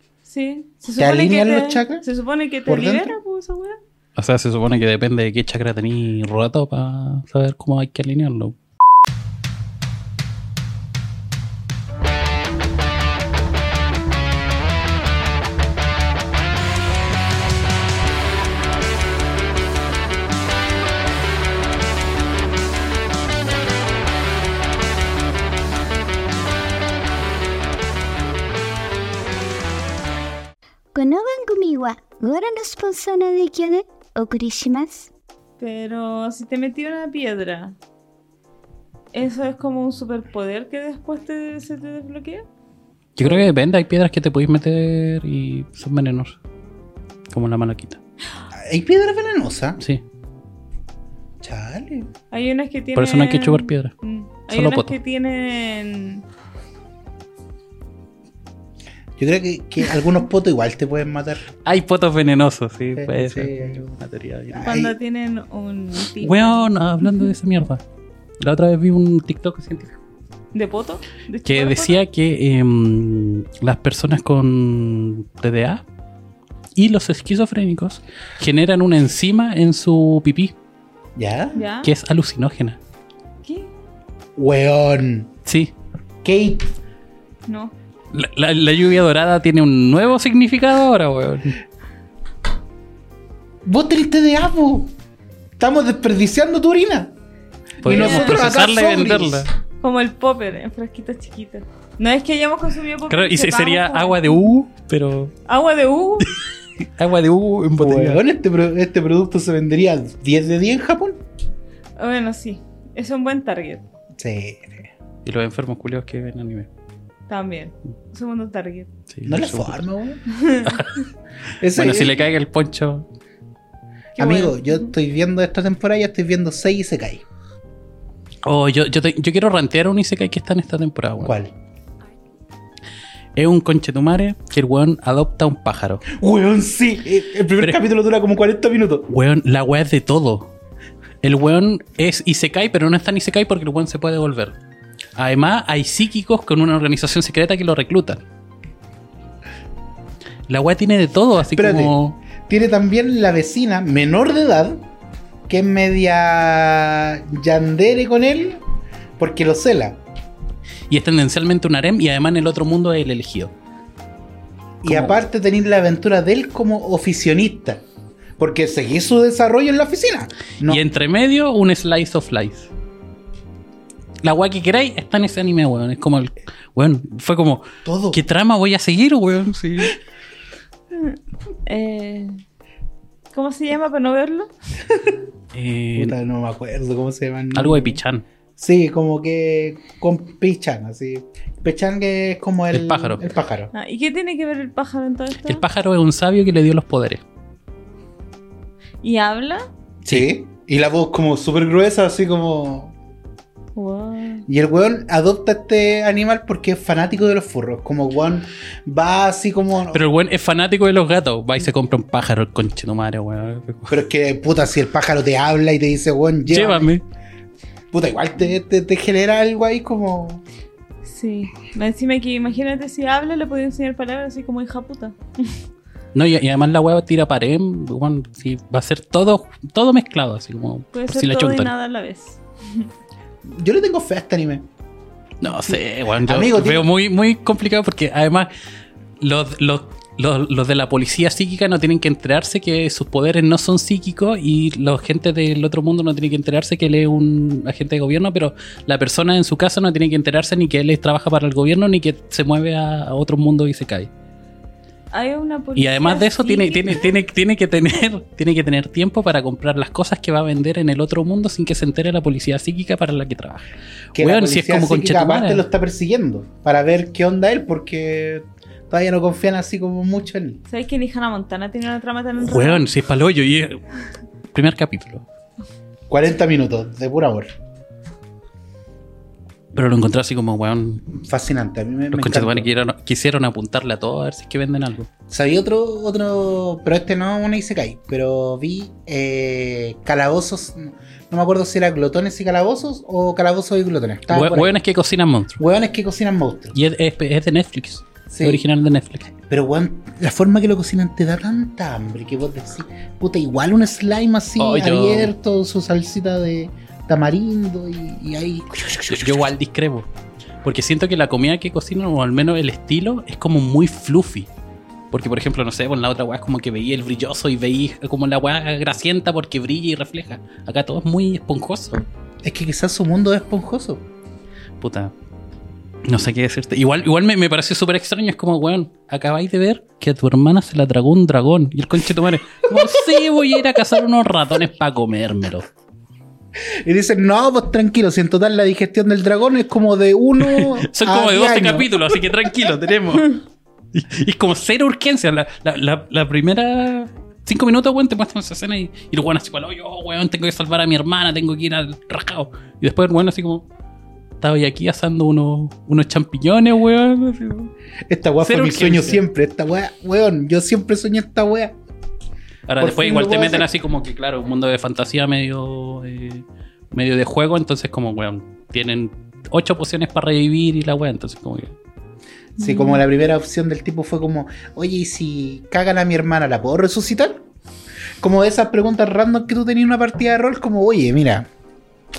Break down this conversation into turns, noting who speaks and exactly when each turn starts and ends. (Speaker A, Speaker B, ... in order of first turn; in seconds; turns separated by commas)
Speaker A: 0.2-3.8, Speaker B: 1.0-2.1, Speaker B: 2.7-3.2, Speaker C: 4.2-8.6, Speaker D: 30.9-35.1, Speaker A: 35.6-37.8, Speaker A: 39.1-42.4, Speaker C: 43.2-46.4, Speaker A: 43.2-43.5, Speaker C: 47.3-48.0, Speaker B: 48.5-49.8, Speaker B: 51.4-52.1, Speaker A: 52.3-56.2, Speaker C: 53.0-53.9, Speaker C: 54.5-54.9, Speaker B: 59.2-61.5, Speaker C: 61.6-64.7, Speaker B: 63.0-63.9, Speaker B: 64.5-65.0, Speaker A: 64.6-66.7, Speaker C: 66.2-67.8, Speaker C: 68.4-70.0, Speaker A: 70.5-72.0, Speaker C: 71.5-75.8, Speaker C: 76.8-80.5, Speaker B: 81.2-81.7, Speaker A: 81.5-81.9, Speaker C: 81.8-82.8, Speaker A: 83.4-83.7, Speaker B: 84.4-85.3, Speaker C: 85.5-85.7, Speaker B: 86.2-86.6, Speaker A: 87.5-87.7, Speaker C: 88.1-91.6, Speaker B: 93.7-94.9, Speaker B: 95.6-97.1, Speaker B: 97.8-99.5, Speaker C: 97.8-99.5, Speaker A: 97.8-98.4, Speaker A: 99.8-104.5, Speaker C: 103.1-105.3, Speaker A: 105.5-106.4, Speaker C: 107.0-108.2, Speaker B: 107.8-111.2, Speaker A: 112.0-113.8, Speaker B: 114.2-114.9, Speaker C: 115.2-116.7, Speaker A: 117.3-118.9, Speaker C: 119.1-119.8, Speaker B: 119.2-120.4, Speaker A: 120.3-120.7, Speaker C: 120.6-121.0, Speaker B: 121.6-122.3, Speaker C: 121.7-123.1, Speaker B: 124.2-127.2, Speaker A: 124.2-124.9, Speaker C: 128.4-131.3, Speaker B: 131.2-131.5, Speaker C: 133.4-136.1, Speaker B: 136.1-139.1, Speaker C: 139.1-140.5, Speaker C: 141.2-144.6, Speaker C: 145.2-148.2, Speaker C: 150.5-152.2, Speaker B: 151.5-154.8, Speaker B: 155.5-158.6, Speaker B: 159.2-160.0, Speaker C: 160.9-163.5, Speaker B: 164.8-167.8, Speaker C: 164.8-165.2, Speaker B: 168.4-170.8, Speaker C: 170.6-172.7, Speaker C: 174.2-180.0, Speaker B: 177.8-178.2, Speaker A: 181.7-182.4, Speaker A: 183.3-184.5, Speaker B: 184.9-185.2, Speaker C: 185.5-186.2, Speaker B: 186.0-188.0, Speaker C: 187.5-188.2, Speaker B: 188.6-193.7, Speaker C: 192.7-193.3, Speaker A: 193.7-195.6, Speaker C: 195.4-197.2, Speaker A: 199.0-199.7, Speaker B: 200.0-202.9, Speaker A: 203.8-204.5, Speaker B: 204.5-210.0, Speaker C: 209.9-214.0, Speaker B: 213.9-216.9, Speaker C: 216.5-217.0, Speaker B: 217.9-220.4, Speaker A: 221.1-225.6, Speaker C: 226.2-231.7, Speaker A: 230.9-232.9, Speaker B: 233.5-234.7, Speaker C: 235.4-238.5, Speaker B: 235.4-236.9, Speaker C: 239.2-254.1, Speaker A: 255.1-257.2, Speaker C: 255.8-265.6, Speaker B: 264.1-270.6, Speaker A: 270.7-272.9, Speaker C: 272.4-273.8, Speaker C: 274.5-275.3, Speaker B: 276.1-277.5, Speaker C: 279.7-281.1, Speaker B: 281.1-282.7, Speaker C: 282.1-285.1, Speaker B: 285.3-294.8, Speaker C: 294.3-295.6, Speaker B: 295.6-296.8, Speaker C: 296.7-299.3, Speaker B: 298.3-298.6, Speaker B: 299.4-309.5, Speaker C: 304.6-305.3, Speaker C: 309.1-310.1, Speaker C: 310.6-314.5, Speaker C: 315.1-322.1, Speaker B: 322.4-324.1, Speaker C: 324.8-325.1, Speaker C: 326.1-335.7, Speaker B: 332.8-333.0, Speaker B: 336.7-342.7, Speaker C: 340.4-353.7, Speaker C: 354.4-357.7, Speaker B: 358.1-361.8, Speaker C: 358.4-359.2, Speaker C: 362.7-371.8, Speaker B: 362.8-363.7, Speaker B: 372.6-377.4, Speaker A: 372.6-373.0, Speaker B: 378.2-381.5